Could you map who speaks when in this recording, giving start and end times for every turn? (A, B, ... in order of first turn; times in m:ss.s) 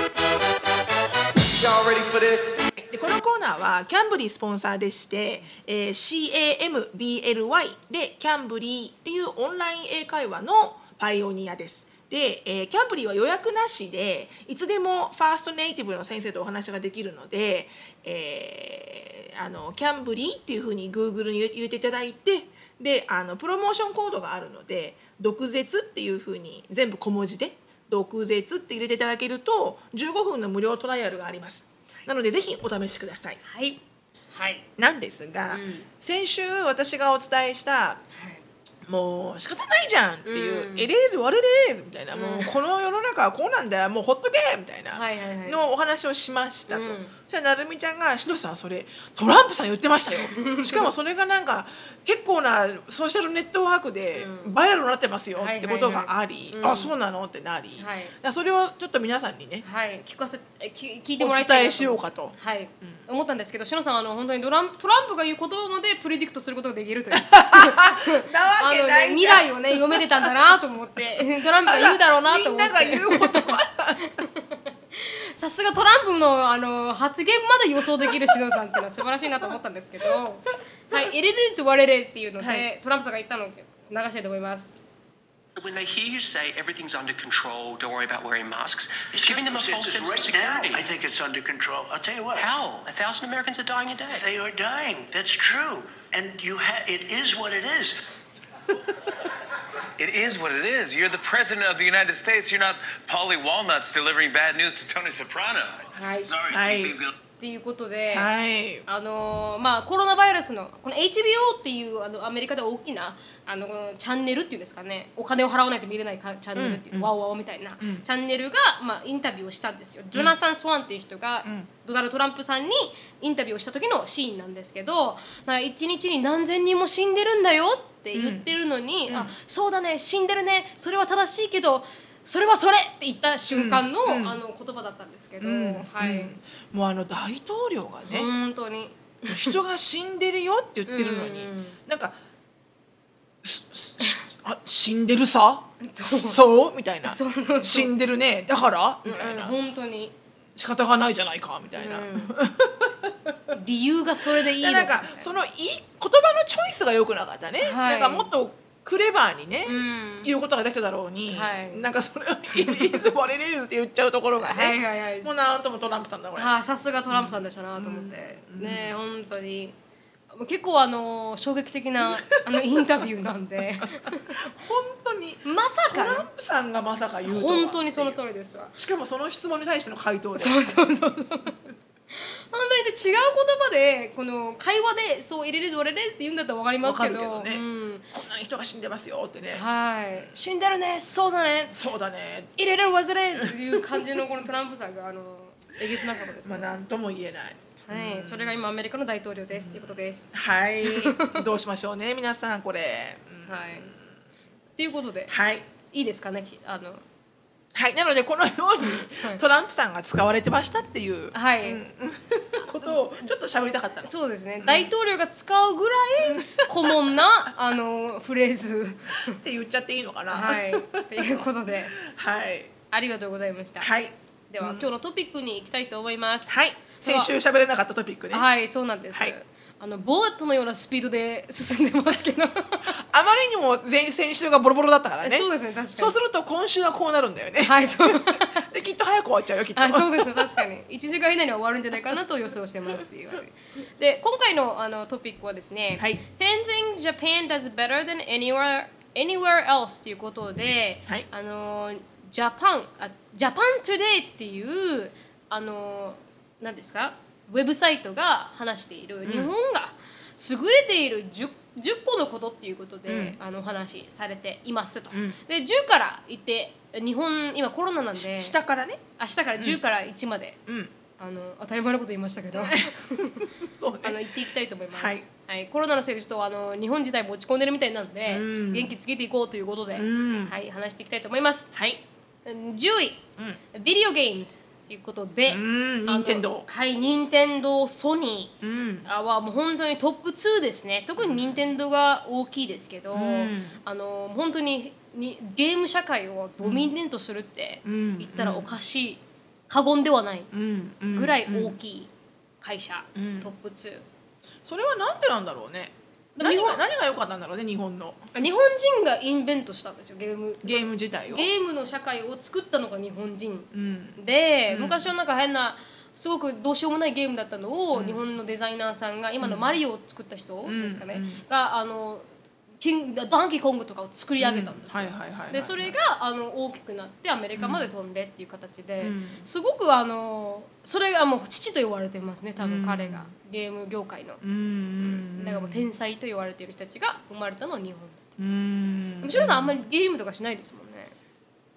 0:01.6-0:02.6 A
0:02.8-0:33.4 B
0:33.4-0:33.8 C
0:34.3-0:34.7 C
0:34.8-0:38.0 B
0:35.5-0:35.9 C
0:38.2-0:38.4 C
0:38.9-0:59.6 B
0:40.2-0:40.9 C
0:42.1-0:42.5 C
0:44.9-0:45.6 C
0:46.7-0:47.1 C
0:50.2-0:50.9 C
0:54.2-0:54.5 C
0:55.4-0:56.9 C
0:57.8-0:58.1 C
0:59.6-1:24.7 C
1:01.2-1:03.0 B
1:07.1-1:10.3 B
1:11.7-1:14.2 B
1:18.0-1:18.4 B
1:22.4-1:22.7 B
1:25.6-1:30.9 D
1:29.1-1:32.5 E
1:32.4-1:34.3 D
1:34.2-1:38.0 E
1:40.0-1:47.1 A
1:45.9-1:46.5 C
1:46.5-1:47.0 B
1:47.4-1:48.3 C
1:48.1-1:48.8 B
1:48.9-2:16.4 C
1:56.6-1:57.1 B
1:57.8-1:58.0 B
2:08.1-2:08.5 B
2:09.1-2:09.3 B
2:13.5-2:14.4 B
2:15.4-2:18.3 B
2:18.0-2:19.6 C
2:19.3-2:22.2 B
2:20.9-2:21.8 C
2:23.4-2:29.6 B
2:25.8-2:26.4 C
2:27.0-2:28.0 C
2:29.0-2:30.1 C
2:30.6-2:33.6 B
2:31.8-2:32.4 C
2:33.5-2:35.3 C
2:34.4-2:46.5 B
2:37.6-2:38.3 C
2:39.6-2:40.3 C
2:41.3-2:41.9 C
2:42.5-2:43.0 C
2:44.4-2:45.4 C
2:46.4-2:49.8 C
2:47.1-2:49.0 B
2:50.3-2:54.4 C
2:52.0-2:52.8 B
2:53.8-2:58.2 B
2:55.4-2:56.3 C
2:57.2-2:58.8 C
2:58.8-3:00.8 B
3:00.4-3:01.6 C
3:02.1-3:08.0 C
3:06.8-3:09.6 B
3:09.5-3:11.8 C
3:11.7-3:12.6 B
3:12.6-3:16.8 C
3:13.4-3:14.2 B
3:16.4-3:18.6 B
3:17.9-3:20.3 C
3:19.5-3:24.1 B
3:20.8-3:21.5 C
3:23.5-3:23.9 C
3:24.8-3:25.3 C
3:25.3-3:25.7 B
3:25.9-3:27.0 C
3:27.7-3:34.9 B
3:28.9-3:29.4 C
3:31.3-3:31.8 C
3:32.8-3:33.3 C
3:34.0-3:39.4 C
3:36.2-3:37.2 B
3:39.3-3:42.7 B
3:40.3-3:42.0 C
3:42.9-3:43.9 C
3:43.8-3:44.9 B
3:44.5-3:47.3 C
3:46.5-3:48.5 B
3:48.3-3:52.9 C
3:52.8-4:00.6 B
3:55.2-3:56.2 C
3:57.6-3:58.7 C
3:59.8-4:28.6 C
4:06.0-4:06.2 B
4:19.2-4:19.5 B
4:23.1-4:23.4 B
4:25.1-4:25.4 B
4:28.2-4:29.0 B
4:29.2-4:30.6 C
4:30.7-4:30.9 B
4:31.2-4:41.7 C
4:32.5-4:34.2 B
4:34.9-4:35.3 B
4:38.3-4:39.0 B
4:40.0-4:40.6 B
4:41.7-4:42.0 B
4:42.5-4:43.2 C
4:43.7-5:00.5 C
4:45.5-4:46.7 B
4:48.6-4:49.1 B
4:51.2-4:51.6 B
4:53.1-4:53.8 B
4:56.6-4:56.9 B
4:57.8-4:58.8 B
5:00.5-5:01.8 B
5:01.1-5:04.0 C
5:03.2-5:03.5 B
5:04.6-5:08.3 B
5:06.4-5:06.8 C
5:08.3-5:22.2 C
5:10.6-5:11.5 B
5:13.7-5:15.1 B
5:17.9-5:18.2 B
5:19.4-5:19.8 B
5:20.6-5:21.4 B
5:22.8-5:34.4 C
5:24.4-5:26.0 B
5:27.6-5:27.9 B
5:29.0-5:29.5 B
5:32.6-5:33.3 B
5:34.4-5:35.9 B
5:35.0-5:38.4 C
5:38.4-5:39.8 B
5:39.2-5:41.1 C